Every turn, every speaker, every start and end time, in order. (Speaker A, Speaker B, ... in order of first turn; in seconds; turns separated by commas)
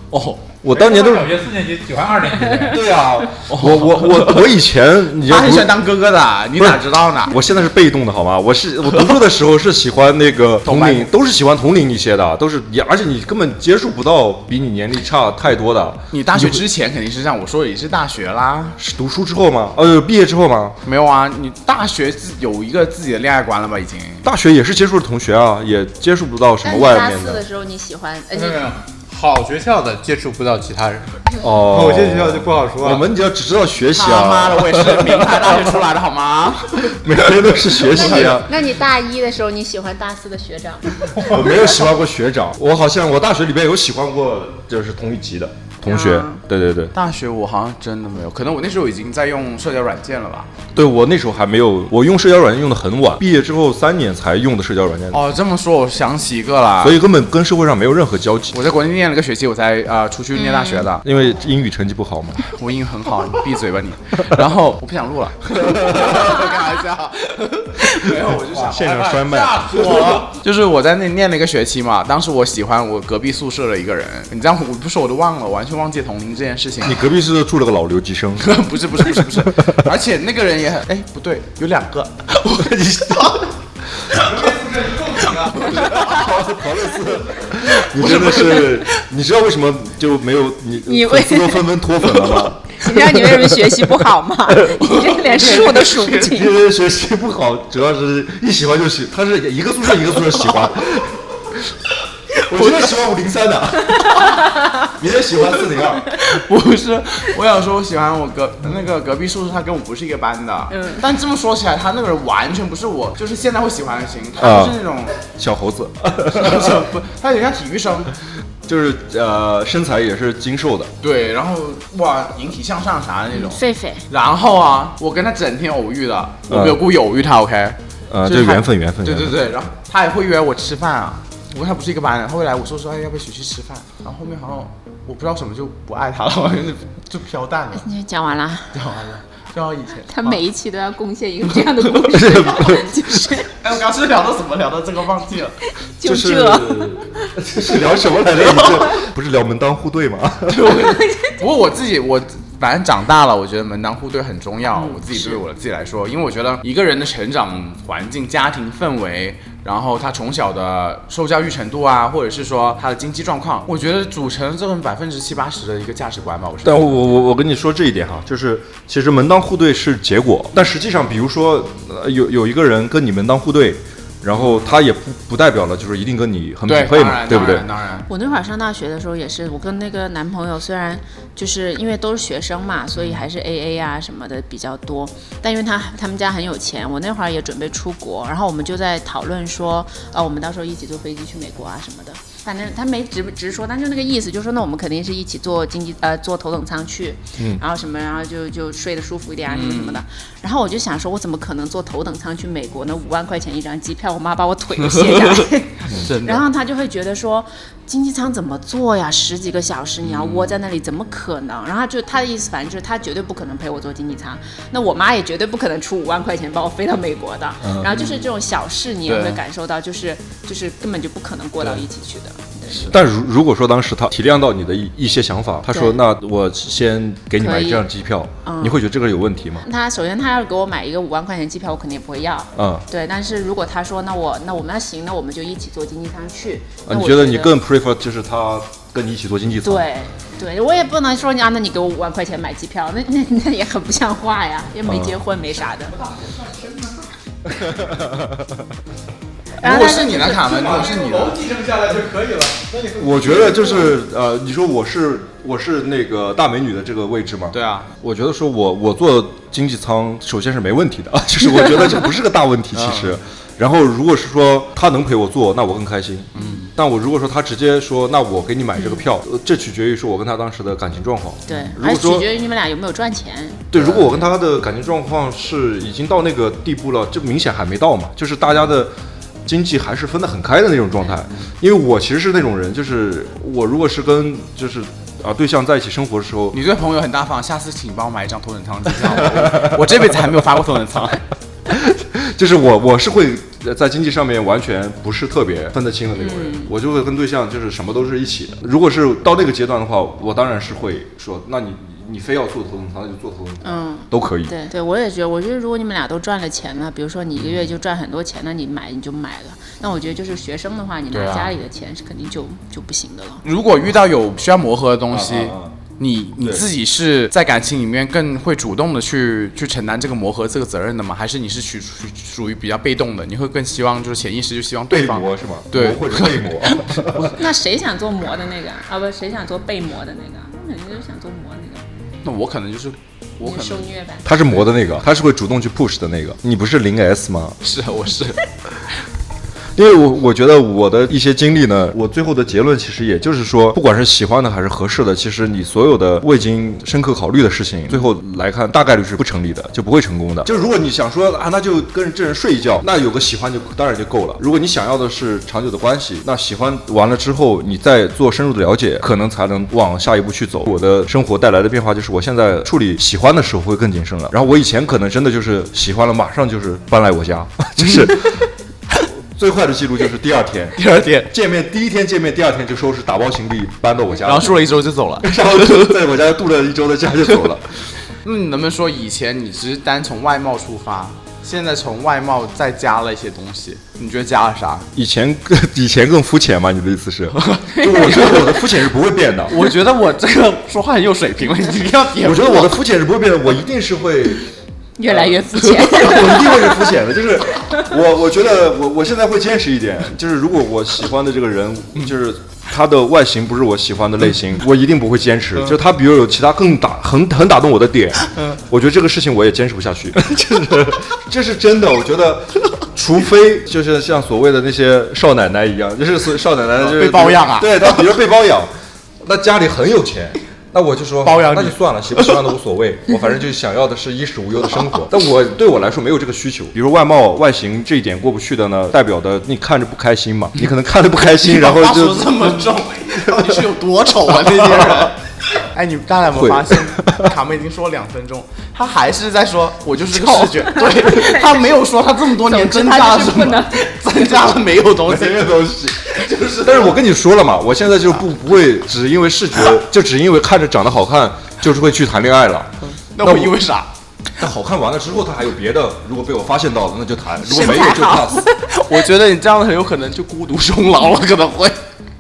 Speaker A: 0.1-0.5, Speaker B: 0.6-1.4, Speaker C: 0.7-2.9, Speaker B: 2.6-5.8, Speaker A: 3.5-4.5, Speaker A: 5.2-7.4, Speaker B: 6.6-16.6, Speaker A: 10.7-11.1, Speaker A: 16.1-18.8, Speaker B: 18.8-20.8, Speaker A: 20.9-24.3, Speaker B: 24.2-27.4, Speaker D: 26.6-28.7, Speaker C: 28.3-33.0, Speaker B: 31.4-35.7, Speaker A: 33.9-37.1, Speaker B: 36.8-38.5, Speaker A: 37.7-38.4, Speaker D: 38.3-41.1, Speaker B: 41.2-46.9, Speaker D: 45.9-46.4, Speaker A: 46.9-50.5, Speaker B: 50.7-55.2, Speaker A: 55.1-57.0, Speaker B: 56.8-58.6, Speaker A: 58.5-61.0, Speaker D: 60.4-60.9, Speaker B: 61.0-62.4, Speaker A: 62.5-68.9, Speaker B: 65.5-66.4, Speaker C: 68.4-70.4, Speaker B: 68.5-70.1, Speaker A: 69.7-77.0, Speaker B: 76.8-78.5, Speaker A: 78.4-83.5, Speaker B: 79.5-79.9, Speaker B: 82.5-83.3, Speaker C: 84.1-85.9, Speaker A: 85.4-86.3, Speaker B: 85.7-93.8, Speaker A: 87.8-88.9, Speaker D: 90.9-91.7, Speaker D: 92.7-96.5, Speaker B: 94.5-94.8, Speaker A: 94.8-96.3, Speaker B: 96.2-101.2, Speaker B: 102.5-104.3, Speaker A: 102.5-102.9, Speaker B: 104.9-106.1, Speaker A: 106.1-115.2, Speaker D: 110.7-111.0, Speaker B: 114.4-114.8, Speaker B: 115.3-116.9, Speaker A: 116.3-118.1, Speaker B: 118.7-120.9, Speaker A: 121.0-137.9, Speaker D: 123.3-124.0, Speaker B: 126.5-126.8, Speaker B: 128.1-129.4, Speaker D: 137.8-138.7, Speaker A: 138.7-140.4, Speaker D: 140.1-143.5, Speaker B: 142.0-143.2, Speaker A: 143.6-145.6, Speaker D: 146.0-147.3, Speaker B: 146.0-150.9, Speaker A: 150.5-167.0, Speaker D: 150.8-151.4, Speaker D: 154.8-155.4, Speaker B: 166.6-177.7, Speaker A: 174.3-174.8, Speaker A: 176.7-178.1, Speaker D: 178.1-222.9, Speaker A: 182.9-183.2, Speaker A: 199.5-200.0, Speaker A: 205.0-206.4, Speaker A: 210.0-210.6, Speaker B: 217.6-217.9, Speaker A: 217.9-218.3, Speaker A: 219.1-219.4, Speaker B: 222.9-229.6, Speaker D: 225.7-226.0, Speaker D: 227.4-227.9, Speaker D: 228.4-228.8, Speaker D: 229.6-237.5, Speaker B: 232.6-232.8, Speaker B: 236.9-239.9, Speaker D: 239.6-245.9, Speaker B: 244.8-245.2, Speaker C: 245.6-247.1, Speaker B: 247.5-248.7, Speaker D: 249.6-250.4, Speaker A: 249.6-251.4, Speaker C: 249.9-254.0, Speaker B: 253.0-272.3, Speaker A: 257.5-257.9, Speaker A: 262.7-263.2, Speaker A: 266.4-266.7, Speaker D: 268.8-269.0, Speaker D: 271.5-274.1, Speaker B: 273.7-278.9, Speaker B: 279.5-286.6, Speaker A: 286.5-291.2, Speaker B: 289.2-289.8, Speaker B: 291.7-304.5, Speaker D: 296.2-296.7, Speaker D: 303.6-313.4, Speaker A: 311.1-311.5, Speaker A: 313.4-327.2, Speaker B: 315.1-315.8, Speaker B: 324.9-327.4, Speaker D: 327.3-331.8, Speaker A: 332.2-333.9, Speaker D: 333.4-334.3, Speaker B: 334.2-337.6, Speaker A: 337.6-338.4, Speaker B: 339.8-368.4, Speaker A: 367.8-368.4, Speaker B: 369.2-370.8, Speaker A: 370.8-371.3, Speaker B: 371.3-374.6, Speaker A: 374.2-376.0, Speaker B: 375.2-377.8, Speaker A: 378.2-384.9, Speaker B: 384.9-389.6, Speaker A: 387.4-388.7, Speaker A: 389.5-392.8, Speaker B: 392.2-394.5, Speaker D: 395.0-396.8, Speaker A: 395.5-396.0, Speaker B: 395.7-418.7, Speaker A: 408.3-408.6, Speaker A: 416.8-418.1, Speaker B: 419.2-432.7, Speaker A: 421.2-422.5, Speaker A: 431.4-447.0, Speaker B: 433.2-433.6, Speaker B: 434.8-435.1, Speaker B: 436.3-437.3, Speaker D: 440.6-441.7, Speaker D: 442.4-444.5, Speaker B: 445.0-446.0, Speaker B: 446.6-453.5, Speaker A: 453.1-453.9, Speaker B: 454.4-458.5, Speaker D: 457.4-458.7, Speaker A: 458.7-461.8